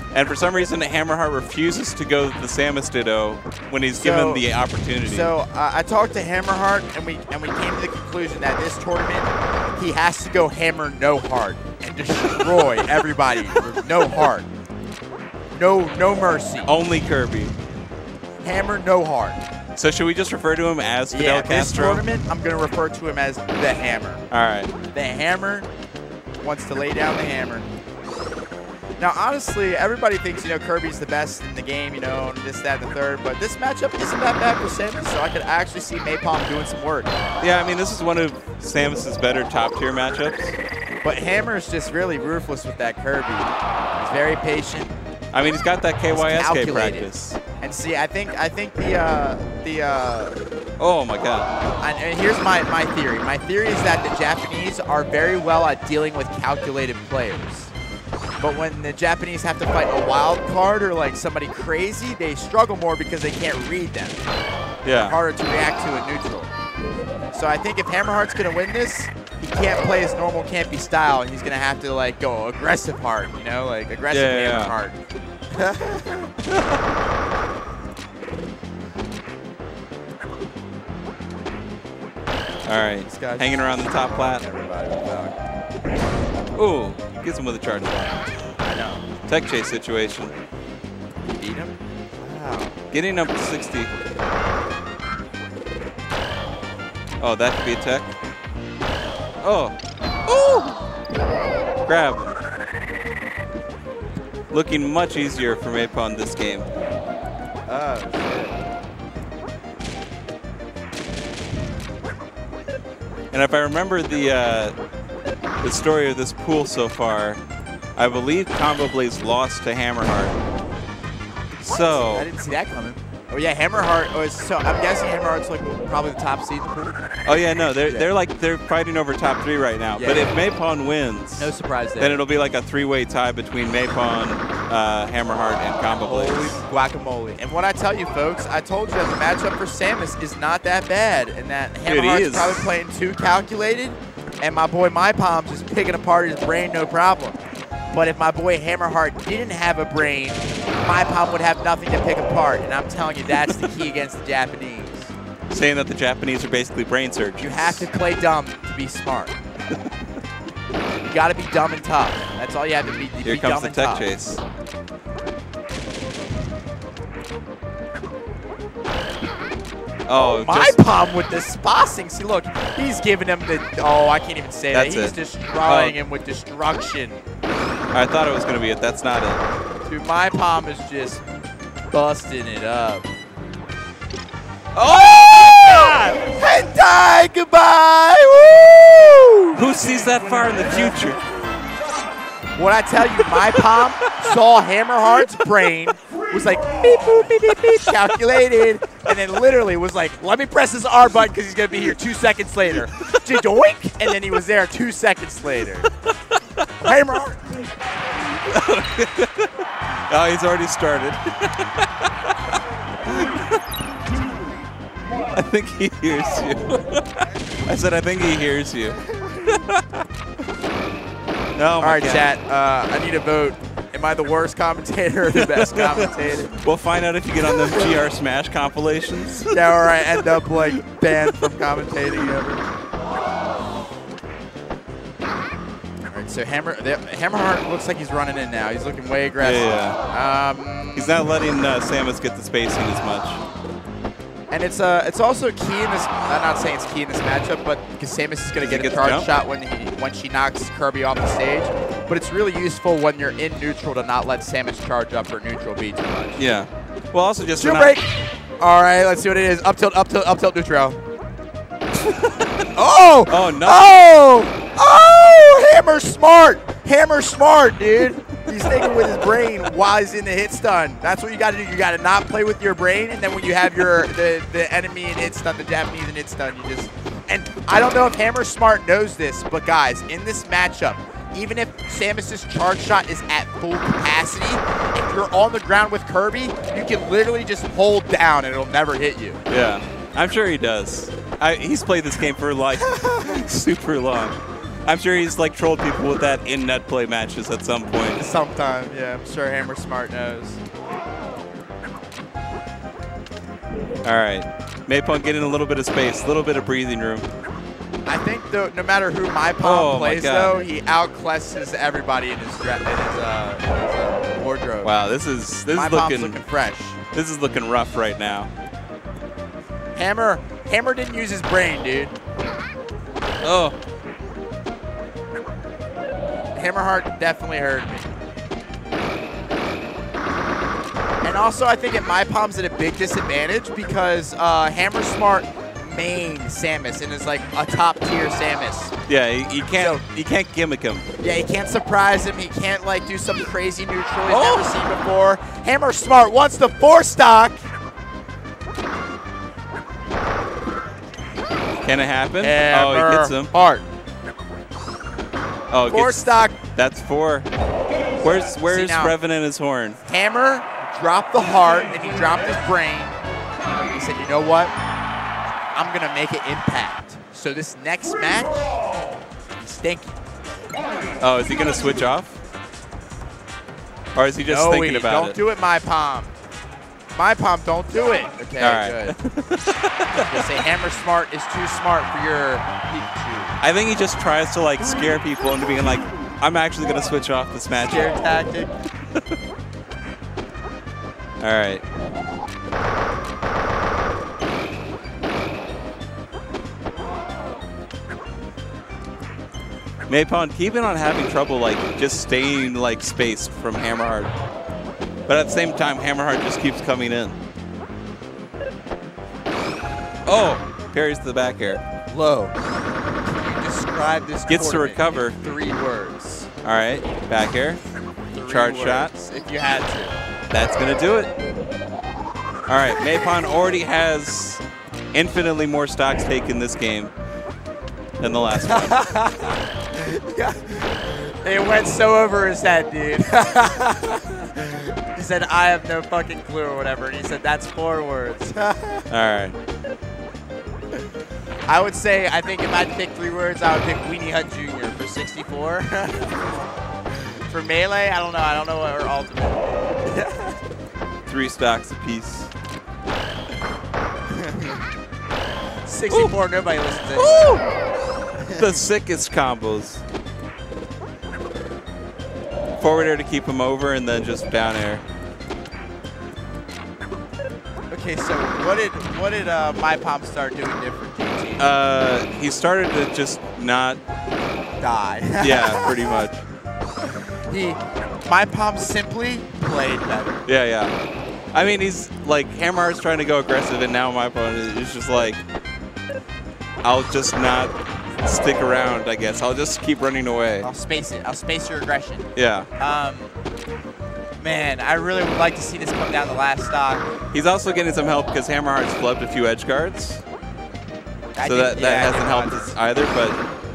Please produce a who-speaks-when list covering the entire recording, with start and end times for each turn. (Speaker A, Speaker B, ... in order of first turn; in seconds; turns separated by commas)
Speaker A: 0.1-5.3, Speaker B: 4.0-4.5, Speaker B: 5.0-14.5, Speaker B: 15.5-16.7, Speaker A: 16.7-17.5, Speaker B: 18.4-19.4, Speaker A: 19.8-22.0, Speaker B: 21.1-24.2, Speaker A: 24.3-24.7, Speaker B: 24.9-25.7, Speaker B: 26.4-27.7, Speaker B: 29.0-37.2, Speaker A: 37.4-40.6, Speaker B: 41.0-44.9, Speaker A: 45.3-47.4, Speaker B: 46.1-50.4, Speaker A: 50.8-51.5, Speaker B: 51.8-57.7, Speaker B: 58.4-64.2, Speaker A: 64.8-65.2, Speaker B: 64.9-66.5, Speaker B: 67.3-75.0, Speaker A: 74.1-74.8, Speaker B: 75.5-76.3, Speaker A: 82.7-84.4, Speaker B: 83.0-85.3, Speaker A: 86.5-88.2, Speaker B: 88.6-89.1, Speaker A: 89.3-90.3, Speaker B: 91.3-92.7, Speaker A: 92.9-93.9, Speaker A: 97.2-98.1, Speaker A: 99.4-99.8, Speaker A: 100.3-100.8, Speaker A: 101.9-102.4, Speaker A: 104.5-106.7, Speaker B: 107.7-108.6, Speaker A: 113.3-114.8, Speaker A: 115.6-117.4, Speaker A: 118.0-120.4, Speaker A: 121.6-122.3, Speaker B: 121.7-127.2, Speaker A: 127.3-136.6, Speaker B: 130.0-130.4, Speaker B: 131.4-132.2, Speaker B: 136.0-147.4, Speaker A: 141.9-142.8, Speaker B: 147.9-155.1, Speaker A: 155.5-157.9, Speaker B: 157.4-159.4, Speaker B: 161.0-164.1, Speaker A: 163.2-164.4, Speaker A: 170.1-170.8, Speaker B: 170.2-177.2, Speaker A: 174.7-176.0, Speaker A: 177.9-179.4, Speaker B: 179.8-181.2, Speaker B: 181.9-183.1, Speaker A: 184.8-186.2, Speaker B: 185.6-189.7, Speaker A: 189.6-191.2, Speaker B: 192.6-205.9, Speaker A: 193.2-194.2, Speaker A: 203.1-203.4, Speaker B: 206.8-207.6, Speaker A: 208.5-209.5, Speaker A: 210.1-212.1, Speaker A: 213.0-213.6, Speaker A: 215.3-220.0, Speaker B: 219.1-219.4, Speaker A: 221.6-222.3, Speaker B: 221.8-226.5, Speaker A: 225.3-229.5, Speaker B: 227.5-227.9, Speaker B: 229.5-232.7, Speaker A: 230.4-230.7, Speaker B: 236.1-241.3, Speaker A: 239.4-240.0, Speaker A: 240.9-243.4, Speaker B: 244.5-256.4, Speaker A: 248.6-249.3, Speaker A: 256.4-258.0, Speaker B: 257.6-261.0, Speaker A: 262.0-262.6, Speaker B: 262.7-289.4, Speaker A: 263.3-263.9, Speaker A: 289.5-298.2, Speaker B: 292.9-293.4, Speaker B: 298.2-300.6, Speaker A: 304.1-307.3, Speaker B: 308.1-314.9, Speaker A: 309.6-310.6, Speaker A: 314.8-316.4, Speaker B: 315.7-317.0, Speaker A: 317.1-318.5, Speaker B: 319.9-322.1, Speaker A: 323.4-323.8, Speaker B: 326.6-328.1, Speaker B: 331.2-338.9, Speaker A: 339.1-341.1, Speaker B: 339.8-340.0, Speaker B: 341.2-347.6, Speaker A: 344.3-344.7, Speaker A: 351.8-353.5, Speaker B: 352.4-353.9, Speaker A: 355.7-357.5, Speaker B: 355.9-356.6, Speaker A: 358.2-360.0, Speaker B: 358.6-359.2, Speaker B: 360.1-364.7, Speaker B: 365.8-368.8, Speaker B: 369.6-370.2, Speaker A: 371.2-372.4, Speaker A: 374.2-375.4, Speaker B: 374.5-376.3, Speaker B: 377.1-379.1, Speaker A: 378.6-380.4, Speaker B: 380.1-383.6, Speaker A: 383.6-388.1, Speaker B: 387.7-388.7, Speaker A: 391.4-391.8, Speaker A: 400.1-404.3, Speaker A: 405.3-407.4, Speaker A: 410.2-411.8, Speaker B: 412.1-412.6, Speaker B: 413.2-416.5, Speaker A: 414.5-415.4, Speaker A: 416.6-417.8, Speaker B: 418.3-420.2, Speaker A: 418.4-419.1, Speaker A: 420.5-421.3, Speaker A: 422.7-424.6, Speaker A: 425.1-427.1, Speaker A: 428.2-429.1, Speaker B: 428.6-439.1, Speaker A: 439.1-439.6, Speaker B: 441.7-446.6, Speaker B: 447.2-450.6, Speaker A: 451.3-452.5, Speaker B: 454.3-454.8, Speaker B: 455.9-457.7, Speaker A: 457.1-457.8, Speaker B: 458.4-458.8, Speaker A: 458.5-460.0, Speaker A: 462.8-465.0, Speaker B: 467.9-471.7, Speaker A: 471.6-474.0, Speaker B: 474.8-476.2, Speaker A: 475.4-476.4, Speaker B: 477.1-480.4, Speaker A: 480.5-480.9, Speaker A: 481.5-485.4, Speaker A: 486.8-490.7, Speaker B: 490.6-493.3, Speaker A: 492.4-492.7, Speaker B: 494.4-497.0, Speaker A: 497.3-500.2, Speaker B: 501.4-502.8, Speaker A: 501.4-503.4